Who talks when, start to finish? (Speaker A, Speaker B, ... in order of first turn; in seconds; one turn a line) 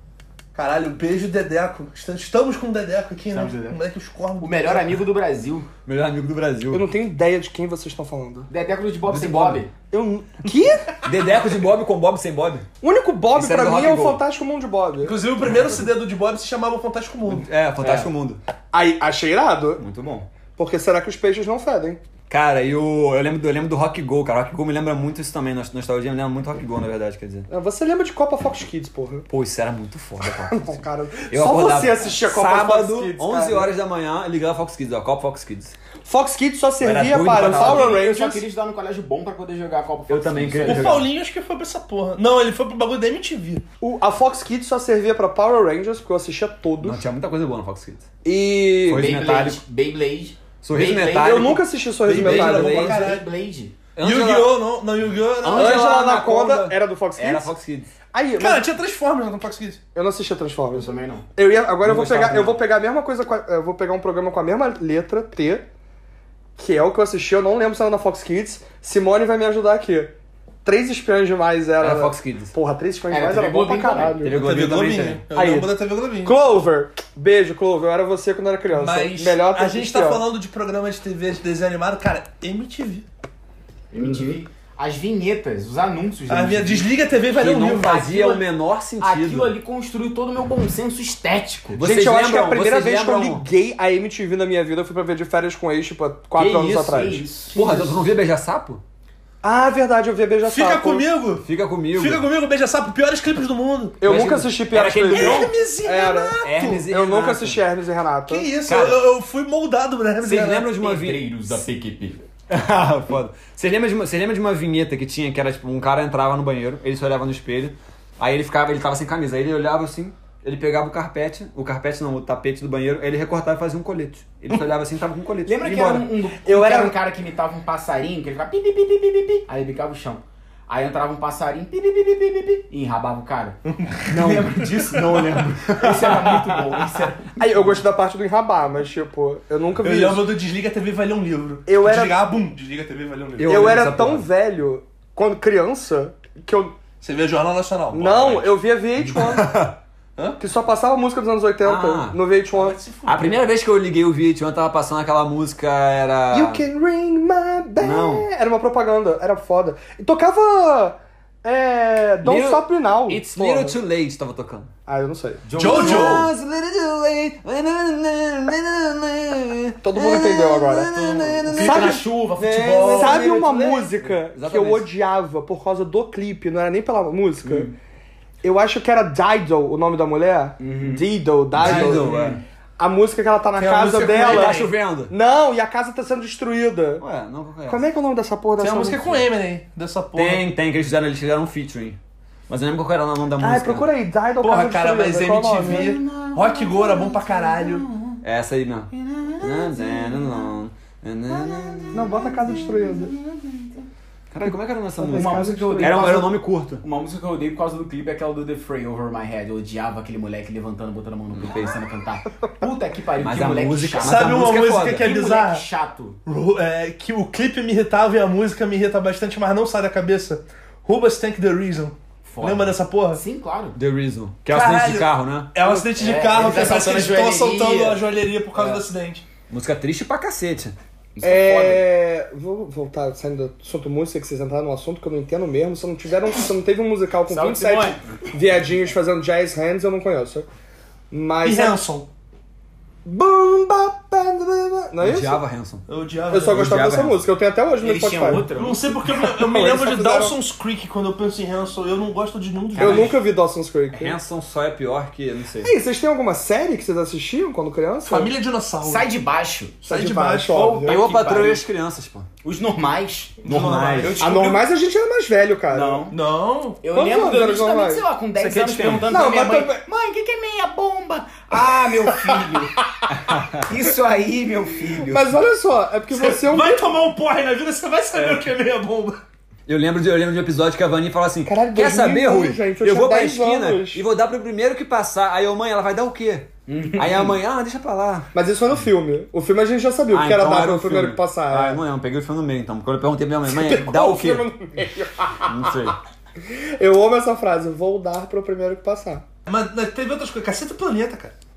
Speaker A: 0.5-5.0
Speaker B: 3.3-3.8
Speaker B: 4.4-5.7
Speaker C: 5.8-6.9
Speaker D: 6.7-8.5
Speaker B: 8.5-9.7
Speaker C: 9.1-9.6
Speaker D: 9.9-10.9
Speaker C: 11.0-12.7
Speaker D: 12.8-15.2
Speaker C: 13.3-14.2
Speaker A: 15.0-17.5
Speaker C: 15.4-15.8
Speaker C: 17.3-18.4
Speaker B: 17.8-18.1
Speaker D: 18.7-19.8
Speaker C: 19.8-20.3
Speaker D: 20.6-22.0
Speaker C: 22.3-27.5
Speaker D: 27.5-29.3
Speaker C: 29.3-35.7
Speaker D: 30.4-33.7
Speaker D: 36.0-38.4
Speaker C: 36.8-38.0
Speaker B: 37.3-41.0
Speaker C: 40.1-41.1
Speaker A: 40.6-43.6
Speaker D: 43.8-47.0
Speaker C: 46.8-48.1
Speaker D: 48.2-49.1
Speaker C: 48.9-49.6
Speaker B: 48.9-51.4
Speaker C: 50.6-51.6
Speaker D: 51.1-53.0
Speaker A: 52.0-53.3
Speaker C: 52.2-53.1
Speaker B: 52.3-53.7
Speaker C: 54.0-54.5
Speaker A: 54.0-55.9
Speaker C: 55.4-57.9
Speaker D: 55.5-57.5
Speaker D: 58.1-58.7
Speaker A: 58.4-59.8
Speaker D: 59.9-65.7
Speaker B: 60.7-61.2
Speaker C: 61.8-62.6
Speaker D: 66.6-70.1
Speaker D: 70.6-74.4
Speaker C: 71.8-72.5
Speaker B: 73.1-74.2
Speaker C: 74.2-75.2
Speaker A: 74.3-76.3
Speaker D: 75.3-75.7
Speaker D: 76.2-80.2
Speaker A: 78.7-83.0
Speaker B: 83.9-86.9
Speaker A: 86.3-88.4
Speaker C: 87.3-89.5
Speaker B: 89.0-91.8
Speaker C: 91.7-93.4
Speaker D: 91.8-97.2
Speaker B: 96.3-97.9
Speaker C: 97.5-98.8
Speaker D: 99.4-101.1
Speaker A: 100.5-104.3
Speaker C: 101.4-102.2
Speaker D: 104.0-108.5
Speaker C: 104.0-105.5
Speaker A: 105.1-106.9
Speaker C: 106.4-107.6
Speaker A: 108.3-110.7
Speaker C: 108.7-109.0
Speaker C: 110.2-111.2
Speaker B: 110.8-112.2
Speaker C: 112.5-126.1
Speaker B: 125.5-133.6
Speaker D: 126.4-126.9
Speaker A: 133.6-135.4
Speaker C: 134.1-136.4
Speaker B: 135.8-137.3
Speaker D: 137.3-140.2
Speaker A: 139.8-143.8
Speaker D: 141.7-142.3
Speaker C: 143.4-144.3
Speaker D: 143.4-146.7
Speaker A: 147.0-148.4
Speaker D: 147.9-149.5
Speaker C: 149.1-149.8
Speaker D: 150.4-152.8
Speaker C: 151.6-152.2
Speaker A: 152.5-153.4
Speaker C: 153.0-156.6
Speaker D: 156.3-163.8
Speaker C: 157.8-158.2
Speaker C: 162.2-164.7
Speaker D: 164.9-166.2
Speaker C: 165.4-174.9
Speaker A: 165.5-166.3
Speaker D: 169.8-171.0
Speaker B: 171.0-173.5
Speaker D: 171.6-177.7
Speaker D: 178.4-182.1
Speaker B: 180.6-181.0
Speaker C: 181.6-182.4
Speaker B: 181.6-182.4
Speaker D: 182.8-187.0
Speaker A: 183.6-184.7
Speaker C: 184.2-185.1
Speaker C: 187.0-187.8
Speaker D: 187.7-189.0
Speaker A: 188.6-190.4
Speaker C: 190.2-192.0
Speaker C: 192.5-193.8
Speaker D: 193.4-196.0
Speaker A: 194.4-197.8
Speaker C: 195.7-197.2
Speaker B: 197.9-198.2
Speaker C: 198.2-202.4
Speaker B: 198.9-200.5
Speaker B: 201.3-203.8
Speaker D: 201.9-203.1
Speaker C: 204.3-206.8
Speaker D: 205.0-206.3
Speaker B: 205.1-216.2
Speaker C: 211.3-211.7
Speaker C: 213.2-215.1
Speaker A: 214.0-215.6
Speaker A: 216.2-223.2
Speaker B: 222.2-223.8
Speaker C: 223.7-225.5
Speaker A: 224.5-229.2
Speaker B: 225.7-228.0
Speaker C: 229.5-230.7
Speaker B: 231.2-231.8
Speaker D: 231.2-240.4
Speaker B: 237.3-238.0
Speaker D: 241.1-241.8
Speaker A: 241.4-242.1
Speaker D: 243.0-245.4
Speaker C: 245.0-245.8
Speaker A: 245.9-246.9
Speaker D: 246.3-248.5
Speaker C: 246.5-247.2
Speaker B: 247.8-248.9
Speaker A: 248.5-253.2
Speaker D: 249.1-250.3
Speaker D: 252.8-254.2
Speaker C: 253.9-255.7
Speaker D: 255.6-258.3
Speaker A: 258.1-259.1
Speaker B: 258.8-259.8
Speaker D: 259.8-261.1
Speaker A: 259.9-260.7
Speaker B: 260.5-261.6
Speaker C: 260.8-262.3
Speaker B: 262.4-264.7
Speaker A: 263.4-264.3
Speaker C: 263.4-264.2
Speaker D: 264.2-266.0
Speaker B: 265.7-266.2
Speaker A: 266.1-266.8
Speaker B: 266.8-272.8
Speaker D: 266.9-268.0
Speaker C: 268.4-269.2
Speaker D: 269.1-269.8
Speaker D: 271.6-272.4
Speaker C: 273.1-273.6
Speaker B: 273.6-275.4
Speaker D: 275.0-276.9
Speaker A: 276.1-279.2
Speaker C: 278.1-278.4
Speaker C: 279.7-288.3
Speaker D: 281.4-284.0
Speaker B: 286.7-287.4
Speaker D: 288.3-291.8
Speaker C: 290.1-294.4
Speaker D: 293.5-295.9
Speaker C: 295.4-296.0
Speaker D: 296.4-299.2
Speaker A: 299.4-301.3